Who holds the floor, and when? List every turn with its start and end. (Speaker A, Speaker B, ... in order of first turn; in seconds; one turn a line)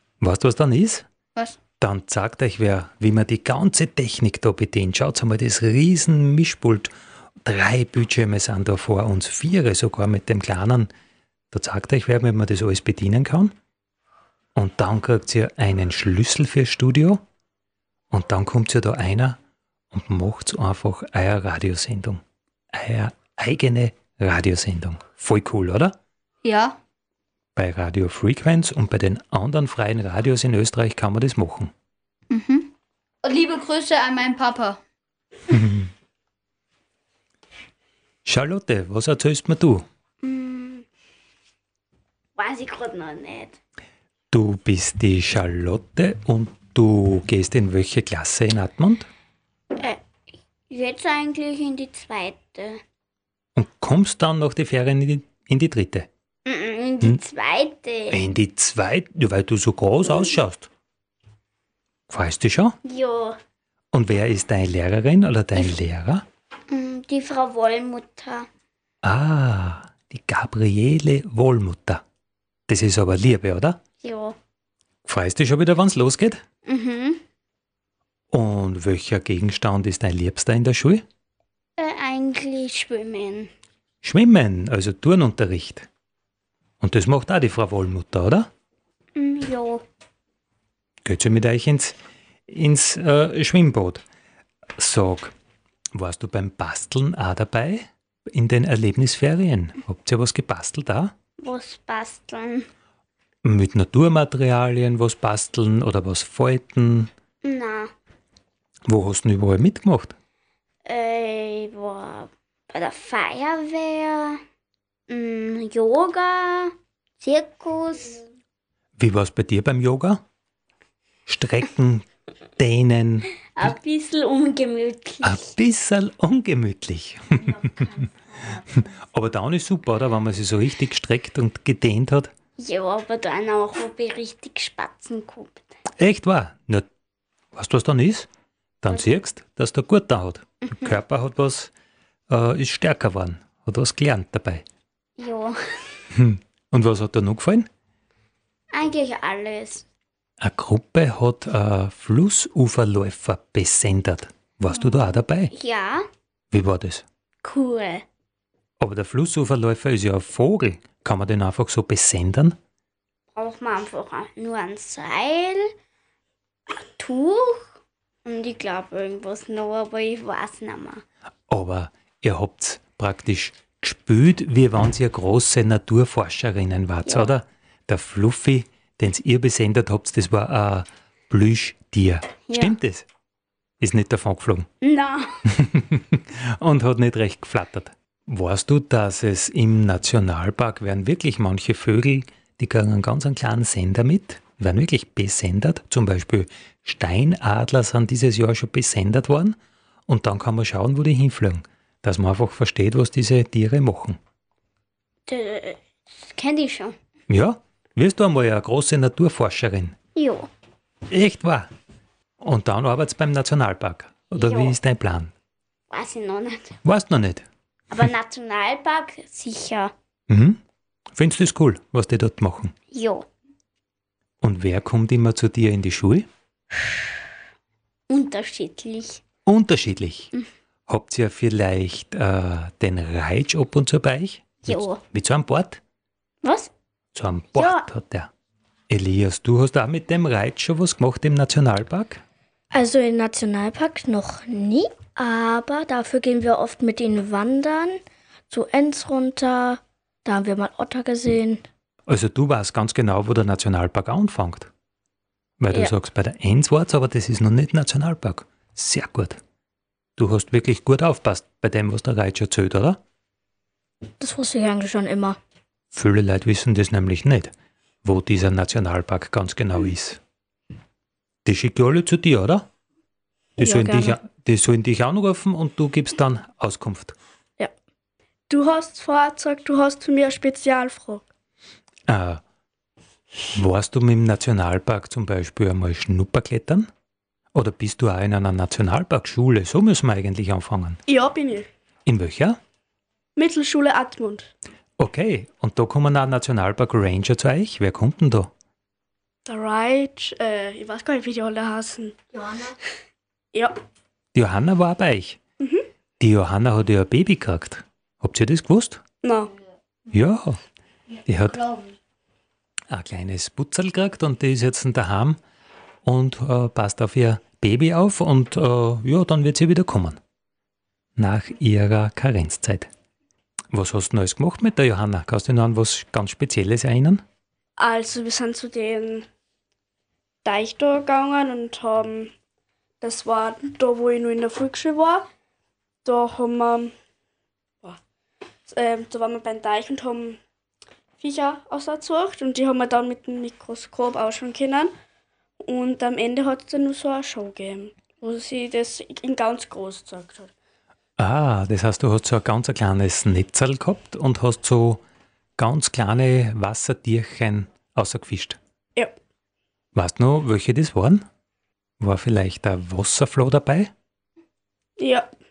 Speaker A: 0.2-1.1
Speaker A: 1.8-10.9
Speaker A: 11.5-13.6
Speaker A: 14.6-17.2
Speaker A: 18.1-19.4
Speaker A: 19.9-26.0
Speaker B: 26.4-26.8
Speaker A: 27.6-31.7
Speaker B: 32.3-32.7
Speaker B: 33.2-34.8
Speaker A: 35.5-35.9
Speaker A: 38.2-39.9
Speaker C: 40.2-40.8
Speaker C: 42.4-43.5
Speaker A: 44.3-49.1
Speaker C: 50.7-52.8
Speaker A: 53.5-56.1
Speaker C: 56.5-58.2
Speaker A: 58.1-60.7
Speaker A: 62.1-62.8
Speaker C: 62.9-63.4
Speaker A: 63.9-66.2
Speaker C: 66.7-68.5
Speaker A: 69.0-72.0
Speaker A: 72.7-73.8
Speaker C: 74.0-74.4
Speaker A: 75.1-76.4
Speaker C: 76.7-77.2
Speaker A: 78.3-81.0
Speaker C: 81.8-83.5
Speaker A: 84.0-85.9
Speaker A: 86.8-88.5
Speaker C: 89.2-89.8
Speaker A: 91.0-92.0
Speaker A: 92.5-94.0
Speaker A: 94.8-95.3
Speaker A: 95.9-101.1
Speaker C: 101.4-102.7
Speaker A: 103.4-107.1
Speaker C: 107.5-107.9
Speaker A: 108.9-110.2
Speaker C: 110.9-114.4
Speaker C: 115.1-118.2
Speaker A: 119.0-120.2
Speaker A: 121.3-122.1
Speaker A: 122.6-123.8
Speaker C: 123.6-125.4
Speaker A: 125.2-127.9
Speaker A: 129.0-132.3
Speaker C: 132.6-135.6
Speaker A: 136.0-136.9
Speaker A: 137.5-138.3
Speaker A: 138.8-141.7
Speaker A: 142.3-144.7
Speaker C: 145.2-145.5
Speaker A: 146.1-147.7
Speaker C: 148.7-149.8
Speaker A: 150.4-155.5
Speaker C: 155.6-156.0
Speaker A: 156.5-157.1
Speaker C: 157.4-158.1
Speaker A: 158.8-162.6
Speaker C: 163.4-165.6
Speaker C: 167.0-167.6
Speaker C: 168.3-171.0
Speaker A: 171.5-183.1
Speaker A: 183.8-184.7
Speaker A: 185.4-204.2
Speaker C: 205.3-205.8
Speaker C: 206.3-206.9
Speaker A: 207.3-210.0
Speaker C: 210.2-210.5
Speaker A: 211.1-211.7
Speaker A: 212.4-215.3
Speaker C: 214.4-214.7
Speaker C: 215.9-216.6
Speaker A: 216.8-217.5
Speaker C: 217.9-219.9
Speaker A: 220.3-220.6
Speaker A: 221.1-222.7
Speaker C: 222.9-223.2
Speaker A: 224.4-226.3
Speaker C: 228.1-229.2
Speaker A: 229.5-230.3
Speaker A: 230.9-235.8
Speaker C: 236.4-236.7
Speaker A: 237.1-238.3
Speaker A: 238.9-242.2
Speaker D: 242.7-251.6
Speaker A: 252.1-254.7
Speaker A: 255.6-259.4
Speaker A: 260.2-263.0
Speaker D: 264.2-265.4
Speaker A: 265.9-267.5
Speaker A: 268.0-270.2
Speaker A: 271.4-272.7
Speaker A: 273.6-277.2
Speaker D: 273.6-274.2
Speaker E: 278.5-281.3
Speaker A: 282.1-282.4
Speaker A: 283.5-286.9
Speaker A: 287.5-291.0
Speaker E: 291.1-291.7
Speaker A: 292.1-292.6
Speaker E: 293.4-294.5
Speaker A: 295.0-298.5
Speaker E: 299.5-302.2
Speaker A: 304.3-305.4
Speaker A: 306.2-309.0
Speaker E: 309.2-309.5
Speaker A: 310.1-310.6
Speaker A: 311.3-311.6
Speaker A: 312.9-315.4
Speaker A: 316.0-320.2
Speaker A: 321.2-322.9
Speaker A: 323.7-327.2
Speaker E: 327.8-329.3
Speaker E: 330.4-332.3
Speaker E: 333.0-335.3
Speaker E: 336.0-336.9
Speaker E: 338.7-340.4
Speaker E: 341.2-344.9
Speaker E: 345.6-350.5
Speaker A: 351.2-355.0
Speaker A: 355.6-358.6
Speaker A: 359.9-361.3
Speaker A: 362.0-363.9
Speaker E: 365.0-365.3